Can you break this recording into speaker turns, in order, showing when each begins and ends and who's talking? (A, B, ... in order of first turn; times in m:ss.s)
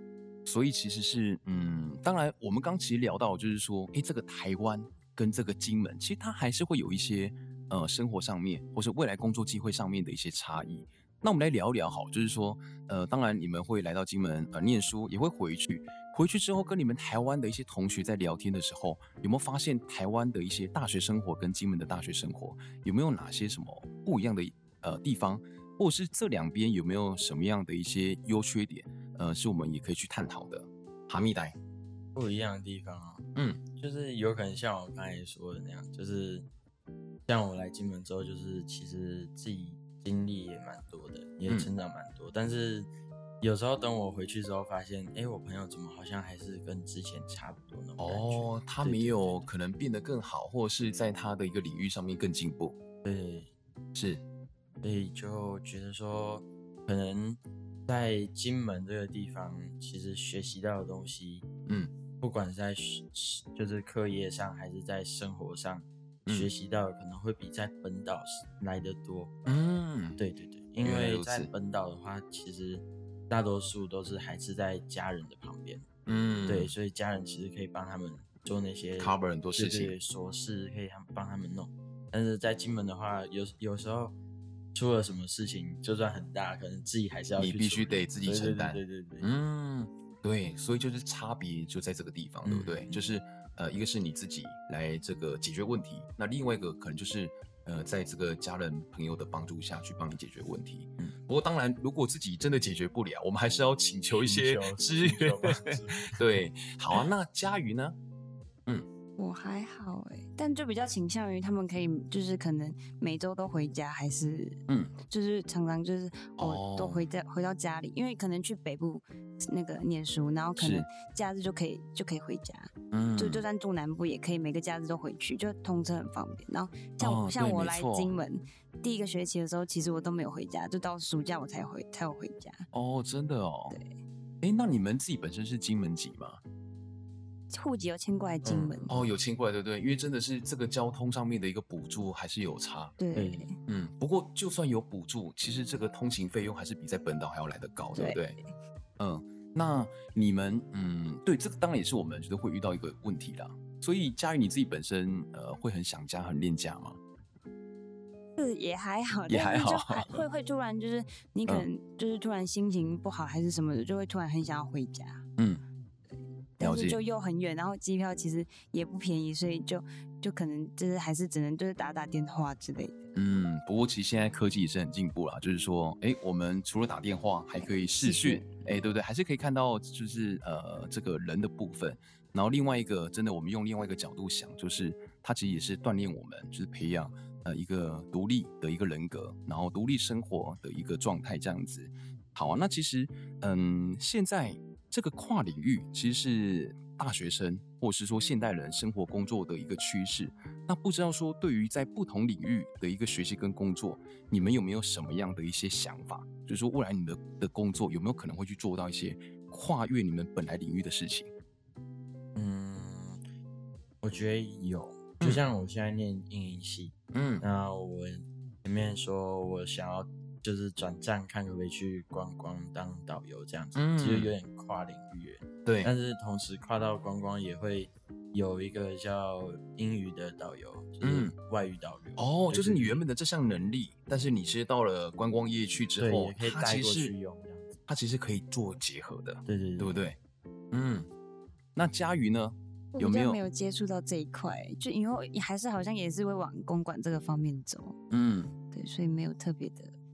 0:00.5-0:31.6 A
0:32.2-0:36.5 B
0:33.4-0:33.6 A
0:37.3-0:42.9 B
0:43.4-0:49.5 B
0:48.0-0:52.8 A
0:53.0-0:53.5 B
0:54.0-0:54.2 A
0:54.8-1:01.5 B
1:01.7-1:01.9 A
1:02.2-1:09.3 B
1:06.3-1:06.5 A
1:09.5-1:10.2 A
1:10.2-1:15.9 B
1:10.8-1:11.5 A
1:16.1-1:16.7 A
1:16.5-1:24.2 B
1:19.0-1:20.0 A
1:24.8-1:29.3 B
1:27.4-1:48.0 A
1:32.4-1:33.0 B
1:44.1-1:46.2 B
1:49.2-2:12.7 C
1:54.7-1:54.9 A
1:56.4-1:57.0 A
2:00.6-2:00.9 A
2:02.9-2:03.4 A
2:07.0-2:08.1 A
2:12.7-2:13.8 A
2:14.4-2:16.4 A
2:17.5-2:18.9 C
2:18.4-2:19.0 B
2:18.9-2:23.0 A
2:23.0-2:23.6 C
2:23.2-2:23.5 B
2:23.7-2:28.4 A
2:28.0-2:28.2 C
2:29.0-2:37.0 A
2:38.4-2:45.2 C
2:39.3-2:40.2 A
2:45.4-2:45.6 A
2:46.6-2:53.1 C
2:46.6-2:47.0 A
2:53.2-3:31.3 A
2:57.6-2:58.5 C
3:32.4-3:33.2 B
3:34.0-3:53.0 B
3:37.1-3:37.4 A
3:43.8-3:44.3 A
3:45.7-3:45.9 A
3:51.0-3:51.3 A
3:52.2-3:57.1 A
3:56.0-3:57.8 B
3:57.9-4:00.2 A
3:59.5-4:00.0 B
4:00.7-4:01.1 A
4:01.8-4:03.4 A
4:02.9-4:08.0 C
4:08.1-4:08.5 A
4:08.7-4:10.0 C